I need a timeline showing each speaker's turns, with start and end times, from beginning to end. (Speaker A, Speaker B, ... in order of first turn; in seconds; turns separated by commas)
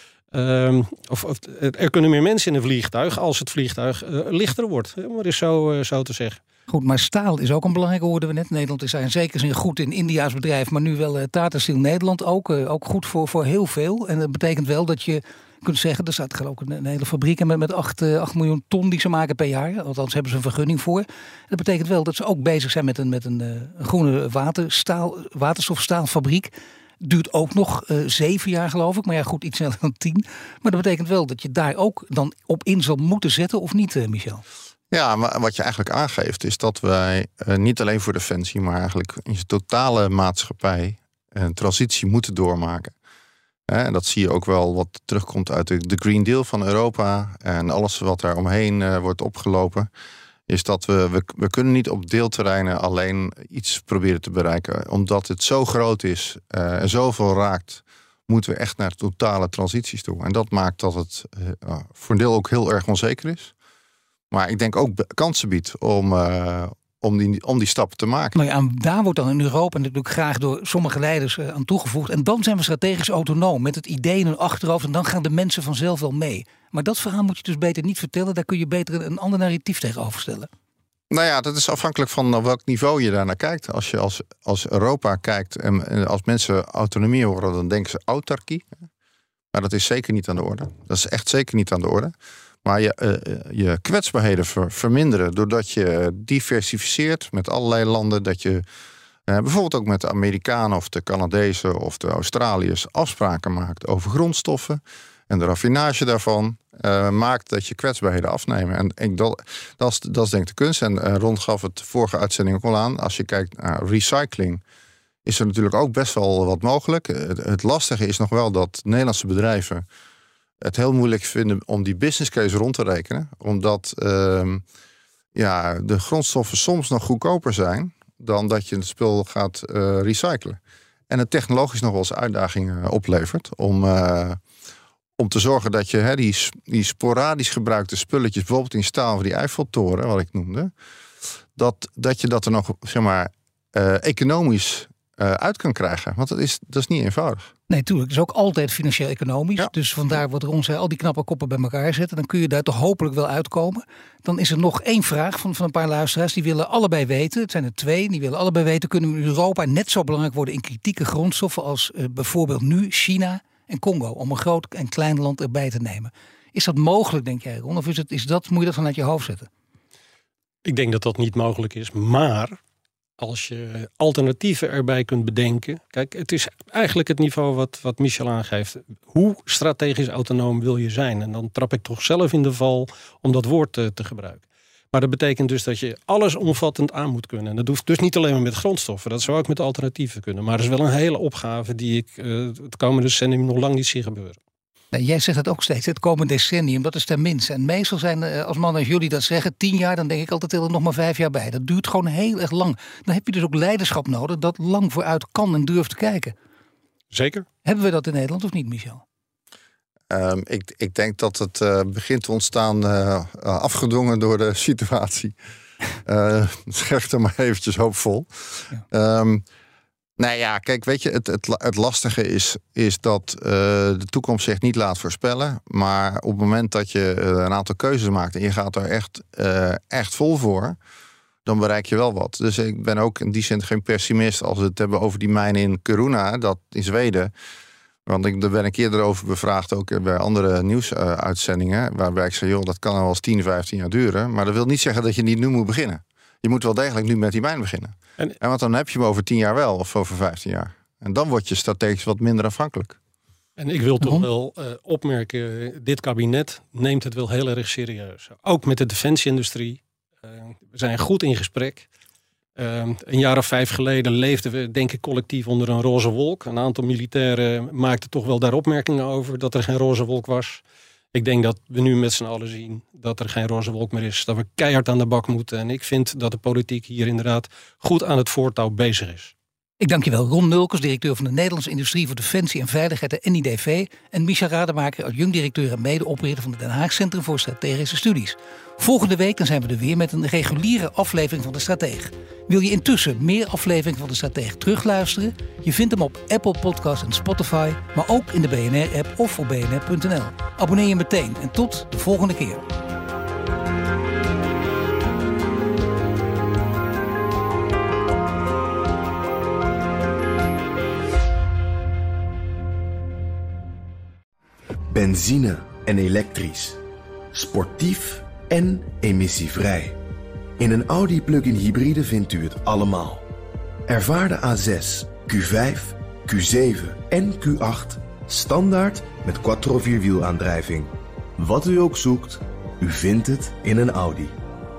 Speaker A: 0.3-6.4, Speaker B: 6.7-34.4, Speaker C: 34.9-42.9, Speaker C: 43.7-49.9, Speaker C: 50.5-63.5, Speaker C: 64.3-68.4, Speaker B: 68.3-80.5, Speaker C: 81.1-88.7, Speaker C: 89.5-92.1, Speaker C: 92.6-98.7, Speaker C: 99.3-114.6, Speaker C: 115.3-119.8, Speaker C: 120.6-124.6, Speaker C: 125.3-134.4, Speaker C: 135.2-140.7, Speaker C: 141.6-147.5, Speaker B: 147.7-169.5, Speaker A: 170.7-172.6, Speaker A: 173.2-194.4, Speaker B: 194.9-206.3, Speaker A: 207.1-207.5, Speaker B: 207.6-209.0, Speaker C: 210.1-215.4, Speaker C: 216.0-219.4, Speaker C: 220.2-230.8, Speaker C: 231.4-237.3, Speaker C: 238.1-253.0, Speaker A: 253.6-261.9, Speaker B: 254.0-254.3, Speaker A: 262.6-270.6, Speaker A: 271.1-279.3, Speaker B: 279.8-302.6, Speaker D: 314.9-316.8, Speaker D: 317.3-320.0, Speaker D: 320.6-323.3, Speaker D: 323.9-334.4